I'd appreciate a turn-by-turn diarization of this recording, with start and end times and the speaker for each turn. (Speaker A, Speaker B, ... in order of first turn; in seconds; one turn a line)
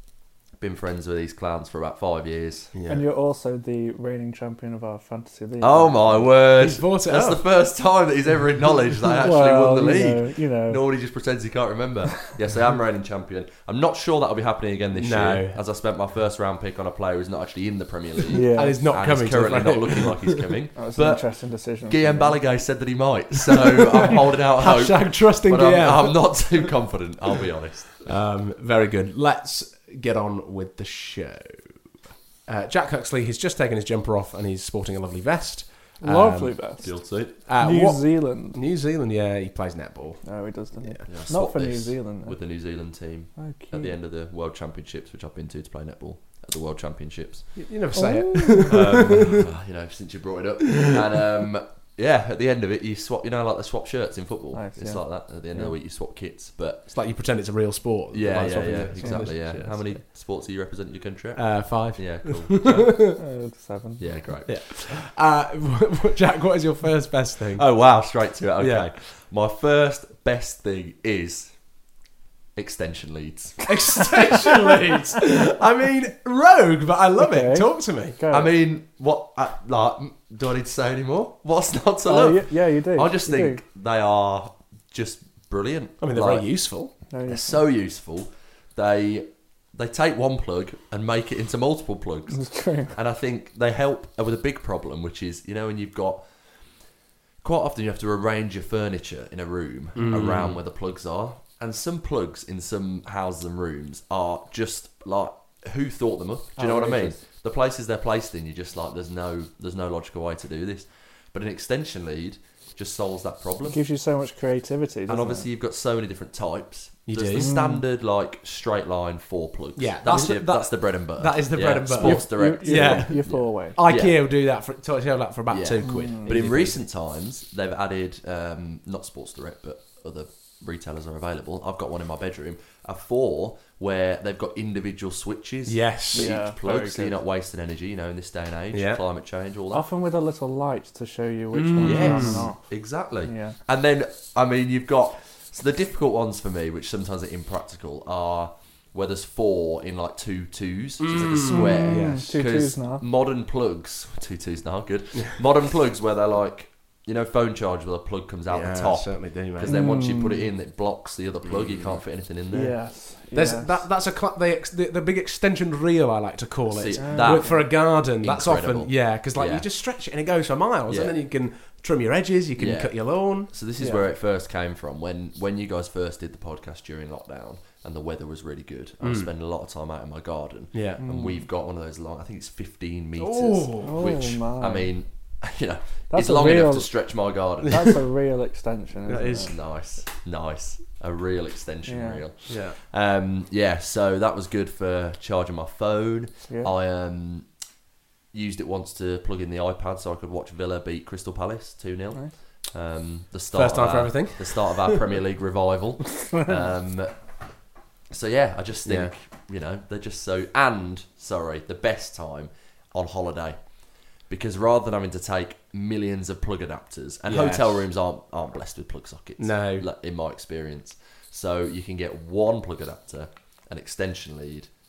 Speaker A: 0.5-2.7
Speaker B: 2.7-3.0
Speaker C: 2.9-6.3
Speaker A: 5.6-21.2
Speaker B: 6.6-7.4
Speaker C: 9.1-10.8
Speaker B: 14.9-15.6
Speaker C: 18.3-18.8
Speaker B: 18.5-20.6
Speaker C: 20.8-22.4
Speaker A: 21.8-28.1
Speaker B: 23.4-26.7
Speaker B: 28.0-31.7
Speaker B: 32.5-36.5
Speaker C: 36.0-38.6
Speaker A: 36.8-37.4
Speaker B: 37.5-40.3
Speaker C: 40.2-42.4
Speaker A: 41.1-47.6
Speaker C: 43.4-43.9
Speaker B: 47.5-49.4
Speaker C: 47.9-48.9
Speaker A: 48.7-56.9
Speaker C: 54.5-55.7
Speaker B: 56.9-60.0
Speaker A: 58.1-63.1
Speaker C: 59.0-59.3
Speaker B: 61.4-63.2
Speaker C: 63.2-64.0
Speaker A: 64.0-64.7
Speaker B: 64.5-67.7
Speaker A: 67.5-71.5
Speaker B: 68.6-68.9
Speaker A: 72.5-73.7
Speaker B: 73.7-78.2
Speaker C: 77.2-78.5
Speaker A: 78.3-86.5
Speaker C: 82.0-83.6
Speaker B: 86.0-86.9
Speaker C: 87.1-87.6
Speaker A: 87.3-92.4
Speaker C: 92.3-92.9
Speaker A: 92.9-96.3
Speaker A: 97.4-113.8
Speaker B: 99.9-100.6
Speaker C: 106.6-107.2
Speaker C: 113.7-115.5
Speaker A: 115.1-124.2
Speaker B: 117.1-117.5
Speaker C: 117.3-117.8
Speaker B: 119.8-123.2
Speaker C: 122.0-123.8
Speaker B: 123.7-126.8
Speaker A: 125.5-139.8
Speaker C: 125.8-126.4
Speaker B: 135.7-136.3
Speaker C: 136.1-137.2
Speaker B: 138.7-139.0
Speaker C: 139.7-142.6
Speaker B: 141.5-142.5
Speaker A: 141.8-162.7
Speaker C: 143.2-143.6
Speaker B: 151.0-152.3
Speaker C: 151.5-153.0
Speaker B: 158.5-159.8
Speaker C: 159.6-160.5
Speaker B: 161.5-161.9
Speaker C: 162.5-163.9
Speaker B: 163.3-173.5
Speaker A: 166.7-169.7
Speaker C: 166.9-167.6
Speaker A: 170.9-171.2
Speaker A: 172.6-187.9
Speaker C: 173.8-174.0
Speaker B: 179.0-179.3
Speaker B: 180.7-181.0
Speaker C: 181.0-181.4
Speaker B: 183.2-184.0
Speaker C: 183.8-184.9
Speaker C: 186.1-186.9
Speaker B: 187.6-187.9
Speaker C: 187.7-189.5
Speaker B: 189.1-189.5
Speaker A: 189.4-197.5
Speaker C: 191.9-192.2
Speaker B: 192.5-192.8
Speaker A: 198.3-207.1
Speaker B: 203.5-205.0
Speaker A: 208.1-213.6
Speaker B: 208.8-209.1
Speaker A: 214.3-224.7
Speaker B: 217.3-217.8
Speaker B: 219.4-219.9